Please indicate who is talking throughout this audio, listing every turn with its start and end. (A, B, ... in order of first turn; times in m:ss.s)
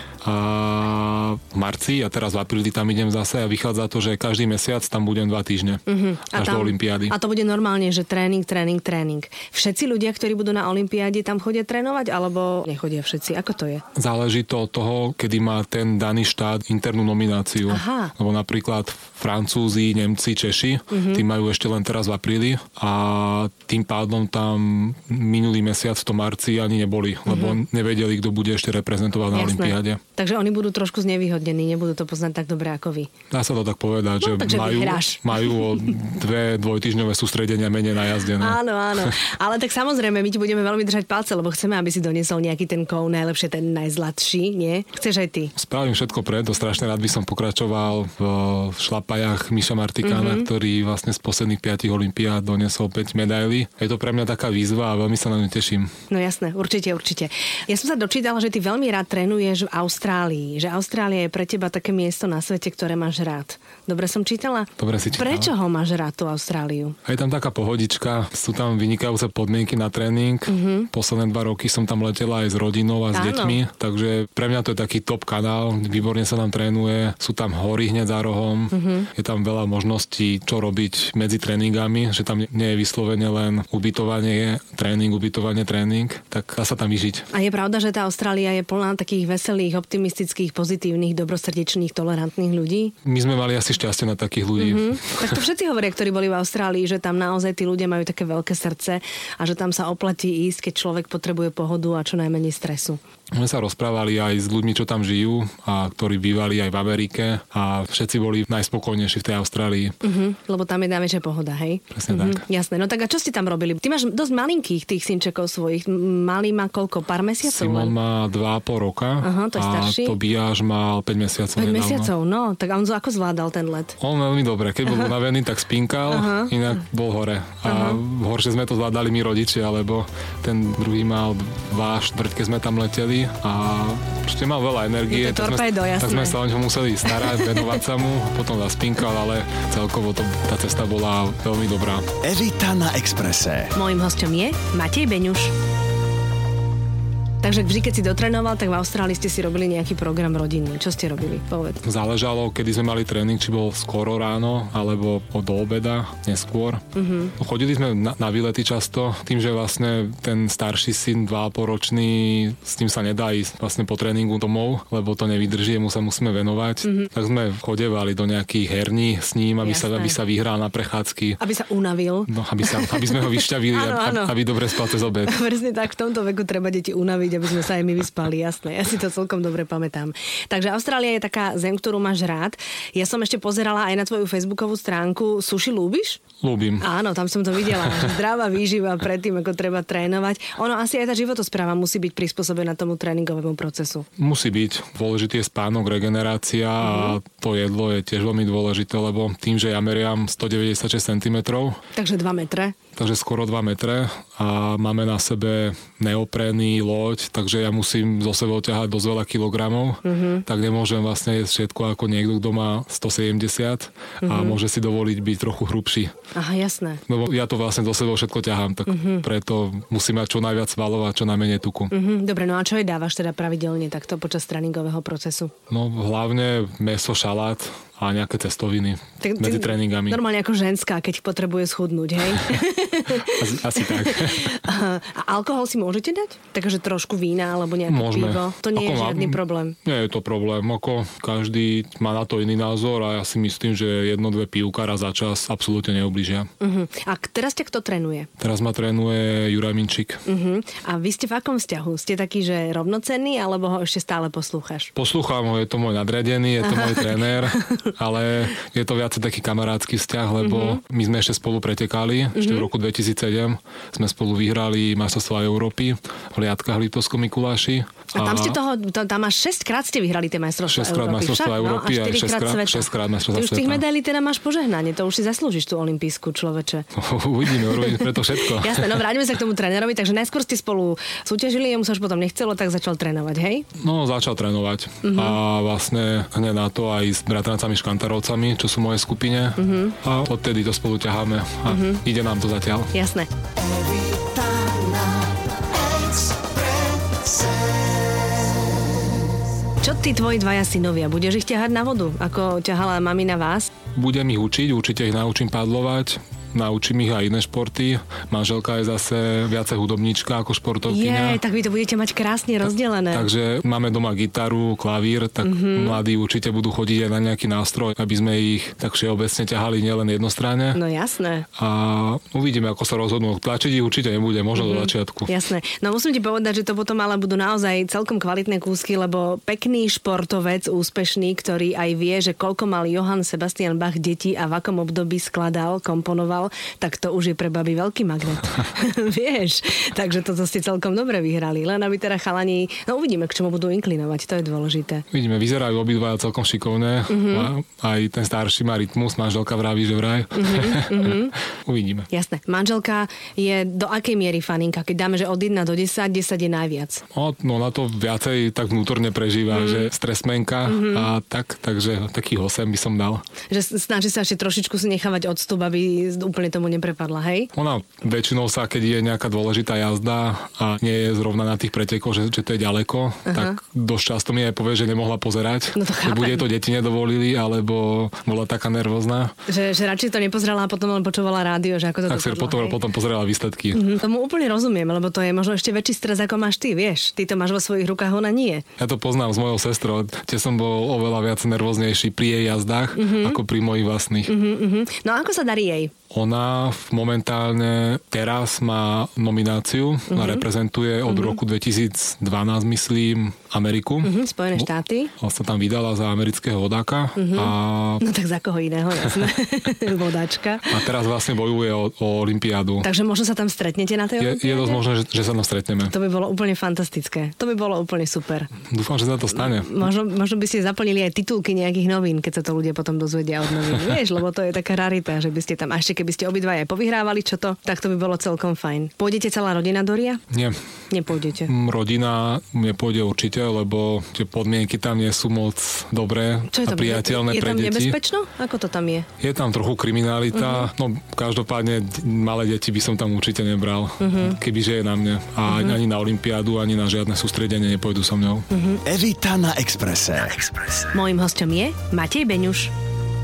0:00.2-0:05.8 A
0:05.9-0:13.8 B
0:06.3-0:07.2 A
0:14.0-0:30.0 A
0:17.7-0:18.1 B
0:20.9-0:21.2 B
0:27.3-0:27.6 B
0:29.3-0:33.1 B
0:33.3-0:39.1 A
0:34.2-0:35.6 B
0:38.4-0:45.5 B
0:45.6-0:55.9 A
0:50.0-0:50.5 B
0:56.1-1:07.0 B
1:04.8-1:05.5 A
1:07.0-1:27.3 A
1:10.5-1:10.9 B
1:13.1-1:13.6 B
1:18.7-1:19.1 B
1:27.3-1:32.9 B
1:33.0-1:35.4 A
1:34.6-1:43.0 B
1:43.3-1:50.0 A
1:50.0-1:58.0 B
1:51.9-1:52.4 A
1:57.4-2:02.1 A
1:59.2-2:00.2 B
2:01.6-2:04.0 B
2:04.0-2:22.1 A
2:06.1-2:06.6 B
2:07.6-2:08.0 B
2:15.1-2:16.4 B
2:17.2-2:17.6 B
2:22.2-2:23.7 C
2:23.7-2:25.5 B
2:27.4-2:31.8 B
2:31.8-2:36.8 A
2:37.0-2:37.3 B
2:37.4-2:51.4 A
2:46.8-2:47.1 B
2:49.6-2:50.2 B
2:51.4-2:54.5 B
2:52.3-2:55.4 A
2:55.2-3:06.2 B
3:06.4-3:06.9 A
3:06.8-3:14.1 B
3:14.2-3:21.8 A
3:16.8-3:17.2 B
3:22.0-3:22.8 B
3:23.0-3:36.1 A
3:30.0-3:30.5 B
3:34.2-3:34.6 B
3:36.4-3:37.0 B
3:37.1-3:41.9 A
3:38.9-3:39.2 B
3:41.9-3:45.5 B
3:45.7-3:50.2 A
3:49.2-3:59.8 B
3:53.2-3:54.6 A
3:57.9-4:06.5 A
4:06.6-4:08.3 B
4:08.4-4:10.2 A
4:10.3-4:14.9 B
4:15.0-4:28.6 A
4:16.6-4:17.9 B
4:20.4-4:20.8 B
4:22.4-4:22.7 B
4:28.1-4:36.9 B
4:30.7-4:33.8 A
4:37.0-4:39.0 A
4:37.5-4:43.7 B
4:43.8-4:52.9 A
4:45.0-4:45.4 B
4:49.6-4:50.0 B
4:51.7-4:52.0 B
4:52.9-4:53.3 B
4:59.8-5:03.7 B
5:04.0-5:11.4 A
5:10.9-5:13.3 B
5:13.1-5:20.8 A
5:15.4-5:16.0 B
5:20.7-5:21.5 B
5:21.6-5:25.3 A
5:24.6-5:45.1 B
5:45.1-5:52.1 A
5:47.1-5:47.5 B
5:50.4-5:51.4 B
5:52.1-5:57.0 B
5:57.1-6:03.2 A
5:59.5-5:59.9 B
6:00.7-6:01.1 B
6:03.5-6:07.5 B
6:07.5-6:19.3 A
6:13.3-6:13.6 B
6:15.7-6:16.5 B
6:19.5-6:22.8 B
6:22.1-6:23.8 A
6:23.7-6:28.6 B
6:28.8-6:34.3 A
6:33.0-6:33.4 B
6:34.3-6:35.9 B
6:36.1-6:44.7 A
6:40.1-6:40.5 B
6:41.1-6:41.4 B
6:44.0-6:45.1 B
6:45.2-6:48.0 A
6:47.2-6:50.7 B
6:50.7-6:52.9 A
6:52.8-6:54.8 B
6:54.2-6:55.9 A
6:55.9-6:58.5 B
6:58.7-6:59.8 A
6:59.4-7:10.2 B
7:10.3-7:10.6 A
7:10.9-7:11.5 B
7:11.5-7:18.0 A
7:16.5-7:19.1 B
7:19.2-7:28.5 A
7:20.3-7:20.7 B
7:24.0-7:24.4 B
7:25.5-7:25.8 B
7:28.5-7:28.8 B
7:28.9-7:30.8 C
7:30.9-7:32.7 B